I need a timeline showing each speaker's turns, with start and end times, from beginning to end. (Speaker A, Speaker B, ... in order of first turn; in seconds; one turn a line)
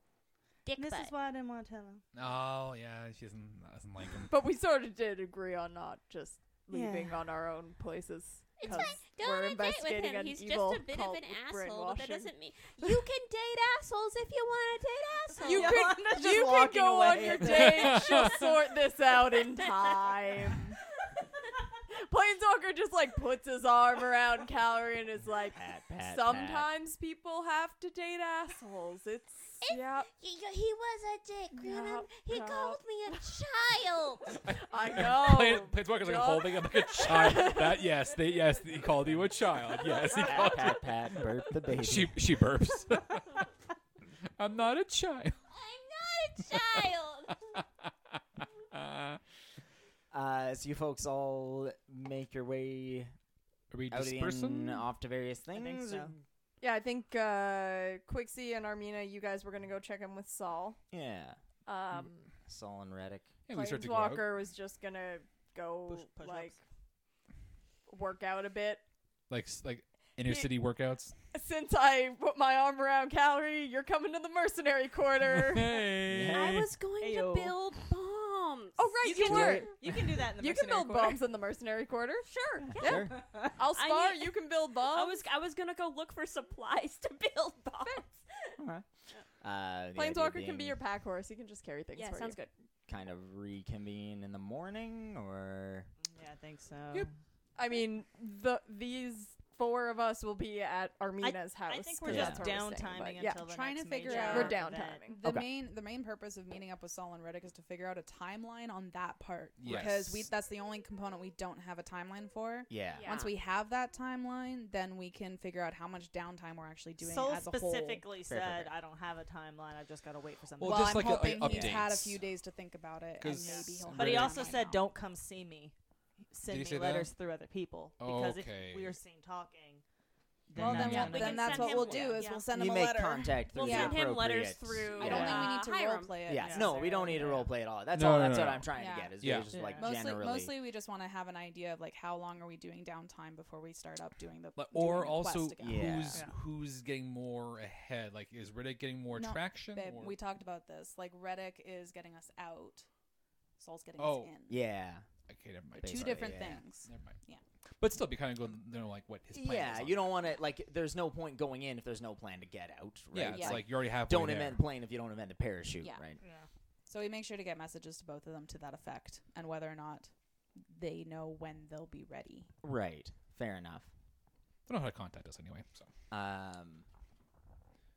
Speaker A: 0.7-1.1
Speaker B: 0.8-2.0
Speaker C: 2.1-4.3
Speaker D: 4.3-13.0
Speaker B: 6.7-7.2
Speaker A: 8.6-15.9
Speaker B: 8.7-9.0
Speaker B: 15.4-18.0
Speaker D: 15.4-20.8
Speaker A: 17.5-18.4
Speaker C: 17.8-18.5
Speaker A: 19.2-20.4
Speaker D: 21.9-30.1
Speaker E: 25.5-26.7
Speaker A: 29.6-34.4
Speaker D: 31.5-33.2
Speaker C: 34.5-40.9
Speaker D: 34.6-38.0
Speaker E: 40.2-42.3
Speaker C: 41.6-43.5
Speaker C: 44.4-45.5
Speaker A: 45.5-47.5
Speaker C: 46.4-47.6
Speaker C: 48.1-49.2
Speaker E: 50.1-53.1
Speaker C: 53.7-54.9
Speaker E: 53.9-56.2
Speaker B: 55.5-56.1
Speaker D: 56.6-60.8
Speaker E: 60.9-61.4
Speaker D: 61.7-62.3
Speaker E: 62.4-63.4
Speaker C: 63.5-64.3
Speaker D: 63.5-66.6
Speaker C: 65.9-66.5
Speaker B: 66.2-66.5
Speaker D: 67.9-68.8
Speaker C: 69.3-71.1
Speaker D: 70.2-70.5
Speaker D: 71.3-75.8
Speaker C: 75.3-76.6
Speaker E: 76.1-76.7
Speaker A: 76.3-79.5
Speaker B: 77.0-77.6
Speaker D: 78.8-79.8
Speaker B: 79.0-81.2
Speaker E: 79.3-79.7
Speaker D: 80.3-85.2
Speaker E: 82.7-83.3
Speaker B: 82.8-83.5
Speaker A: 83.7-88.6
Speaker E: 88.6-88.9
Speaker E: 89.4-90.8
Speaker D: 90.0-92.4
Speaker A: 92.0-92.5
Speaker E: 92.9-95.9
Speaker B: 96.0-97.2
Speaker D: 97.5-103.5
Speaker B: 101.2-105.1
Speaker E: 102.1-102.5
Speaker F: 103.4-118.1
Speaker D: 104.0-105.2
Speaker C: 109.6-110.3
Speaker E: 112.7-113.2
Speaker A: 112.9-113.3
Speaker B: 117.0-121.4
Speaker E: 118.3-118.7
Speaker C: 120.6-122.2
Speaker F: 120.6-124.8
Speaker E: 121.4-121.8
Speaker C: 123.2-124.6
Speaker B: 123.3-125.8
Speaker B: 126.3-129.8
Speaker C: 126.5-127.1
Speaker C: 128.0-129.0
Speaker B: 130.5-132.3
Speaker C: 130.6-131.4
Speaker F: 130.6-134.0
Speaker A: 130.9-132.5
Speaker E: 132.5-135.4
Speaker A: 133.5-136.4
Speaker F: 135.0-137.2
Speaker B: 135.1-135.4
Speaker E: 136.3-140.6
Speaker B: 136.4-137.5
Speaker C: 137.9-139.6
Speaker F: 138.7-139.2
Speaker B: 139.5-139.9
Speaker F: 139.7-146.1
Speaker C: 144.6-150.2
Speaker E: 145.6-146.2
Speaker F: 149.1-152.9
Speaker F: 153.6-154.6
Speaker C: 154.0-154.4
Speaker E: 154.5-155.1
Speaker C: 155.3-157.2
Speaker E: 155.8-156.6
Speaker F: 155.8-157.4
Speaker C: 157.8-160.2
Speaker E: 159.3-166.2
Speaker C: 163.1-164.6
Speaker F: 163.3-163.6
Speaker B: 166.2-166.5
Speaker F: 166.9-172.5
Speaker E: 172.6-173.9
Speaker C: 174.7-175.9
Speaker E: 176.1-176.9